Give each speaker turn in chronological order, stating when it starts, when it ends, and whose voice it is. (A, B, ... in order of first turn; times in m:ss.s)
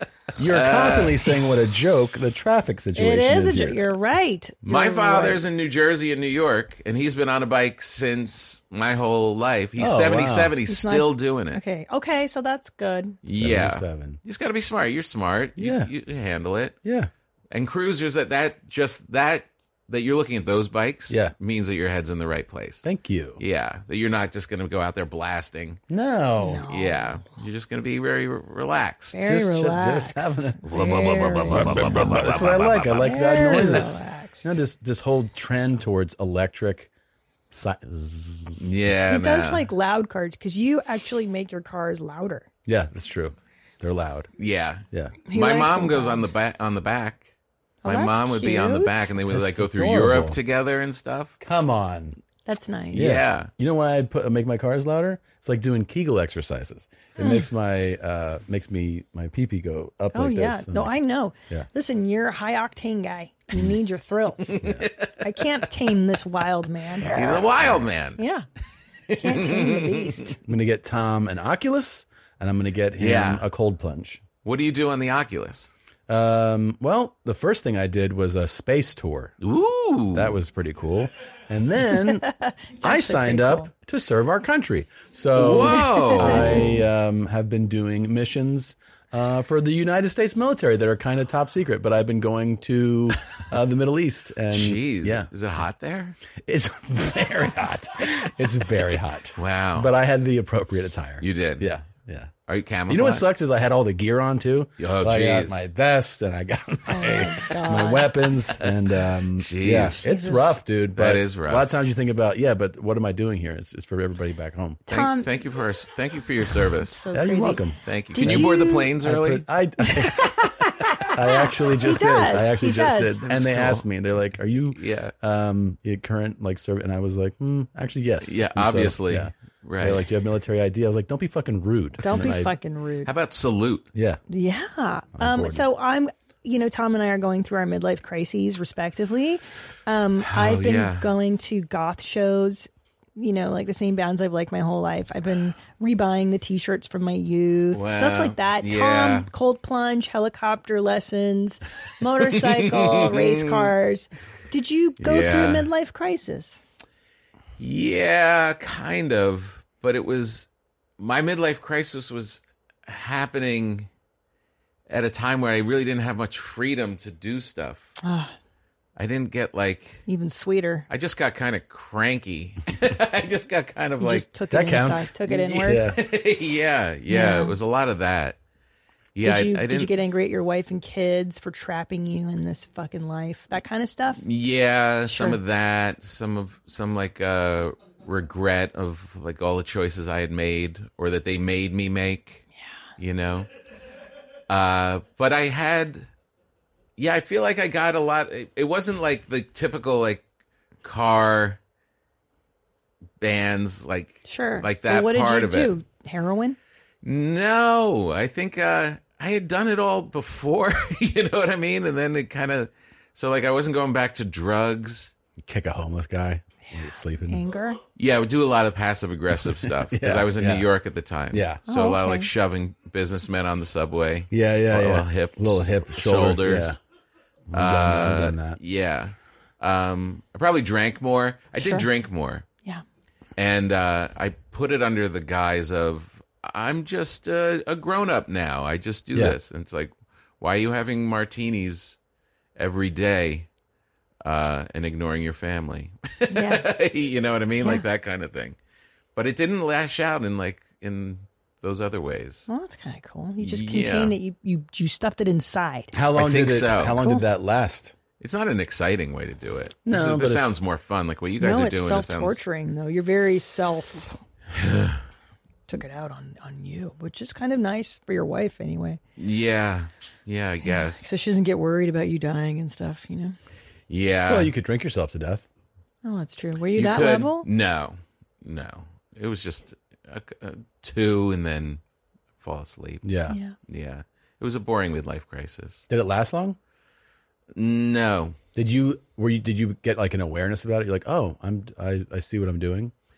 0:00.4-0:03.8 A
0:00.4-0:01.2 B
0:03.0-0:05.4 C
0:04.6-0:11.6 B
0:09.8-0:10.5 A
0:10.7-0:13.2 C
0:13.2-0:16.8 B
0:13.3-0:14.2 A
0:15.6-0:15.9 A
0:16.8-0:17.1 A
0:17.5-0:22.8 B
0:21.1-0:21.3 A
0:22.8-0:23.4 A
0:23.4-0:25.8 B
0:25.9-0:26.6 A
0:26.4-0:27.2 C
0:26.7-0:29.2 B
0:29.1-0:32.4 C
0:29.2-0:36.9 A
0:31.6-0:32.2 B
0:33.0-0:34.6 C
0:37.5-0:38.6 A
0:38.6-0:39.6 B
0:39.1-0:42.5 C
0:42.6-0:44.3 A
0:44.4-0:47.3 B
0:44.9-0:45.2 A
0:45.3-0:46.3 C
0:47.8-0:49.1 C
0:47.8-0:51.3 B
0:49.3-0:50.4 A
0:51.4-0:52.2 A
0:52.4-0:53.1 C
0:52.9-1:00.9 A
0:52.9-0:53.5 B
0:57.2-0:57.4 C
1:00.1-1:04.6 C
1:04.4-1:05.1 B
1:04.6-1:04.9 A
1:05.2-1:07.5 C
1:07.0-1:08.2 B
1:08.2-1:08.4 C
1:09.1-1:10.3 B
1:09.2-1:10.4 C
1:10.4-1:14.2 A
1:13.0-1:13.4 B
1:14.4-1:15.7 B
1:16.1-1:19.4 A
1:19.4-1:20.4 B
1:20.1-1:22.2 A
1:21.9-1:23.7 C
1:22.8-1:35.3 A
1:25.3-1:26.8 B
1:25.8-1:26.7 C
1:34.5-1:36.2 B
1:36.4-1:42.3 A
1:39.3-1:39.9 B
1:41.2-1:41.7 B
1:42.5-1:43.2 B
1:42.9-1:54.8 A
1:44.8-1:45.6 B
1:46.9-1:48.1 C
1:49.4-1:50.0 B
1:50.0-1:50.6 C
1:50.9-1:51.7 B
1:54.9-1:55.3 C
1:54.9-1:57.1 B
1:56.8-1:58.9 C
1:57.1-2:00.3 A
1:57.8-1:59.5 B
1:59.9-2:00.4 C
2:01.1-2:12.5 A
2:01.4-2:03.2 C
2:03.2-2:04.0 B
2:04.7-2:05.1 B
2:08.2-2:10.1 B
2:12.0-2:13.1 C
2:13.0-2:13.9 B
2:13.9-2:14.2 A
2:14.3-2:36.6 C
2:15.1-2:15.6 A
2:20.2-2:21.1 B
2:27.7-2:29.3 B
2:32.3-2:33.7 B
2:35.0-2:35.6 B
2:37.6-2:40.5 B
2:41.0-2:43.9 B
2:44.9-2:47.9 B
2:48.0-2:48.3 C
2:49.0-2:50.0 B
2:50.0-2:50.9 C
2:50.9-2:54.3 B
2:54.0-2:55.9 C
2:54.5-2:56.0 A
2:55.2-2:58.4 B
2:57.1-2:57.6 C
2:59.1-2:59.9 B
2:59.2-3:04.2 C
3:04.2-3:12.4 B
3:05.1-3:05.4 C
3:13.0-3:13.5 B
3:14.5-3:16.1 B
3:17.0-3:20.2 B
3:20.8-3:21.6 B
3:23.2-3:25.7 B
3:24.2-3:26.6 C
3:27.0-3:35.1 B
3:35.4-3:37.4 A
3:36.6-3:37.8 C
3:38.0-3:46.8 B
3:39.5-3:40.7 A
3:41.3-3:41.6 A
3:41.7-3:42.3 C
3:44.3-3:46.8 A
3:47.5-3:48.6 A
3:47.5-3:52.4 B
3:51.6-3:51.9 C
3:53.4-4:02.0 B
4:02.6-4:03.5 B
4:04.2-4:08.6 B
4:06.3-4:06.7 C
4:07.6-4:07.8 C
4:09.1-4:12.5 B
4:12.5-4:15.9 C
4:13.4-4:14.2 B
4:15.9-4:17.9 A
4:16.1-4:17.0 B
4:17.0-4:17.2 C
4:18.2-4:22.4 B
4:19.8-4:20.5 A
4:21.4-4:24.2 C
4:24.5-4:25.0 B
4:25.7-4:29.0 C
4:29.2-4:31.1 B
4:30.6-4:33.4 C
4:33.9-4:34.5 B
4:34.3-4:35.4 A
4:36.0-4:37.5 C
4:36.7-4:41.8 B
4:42.4-4:43.0 B
4:43.0-4:43.4 A
4:43.3-4:43.5 C
4:43.7-4:45.8 B
4:45.9-4:46.6 A
4:47.5-4:48.4 B
4:48.5-4:52.9 A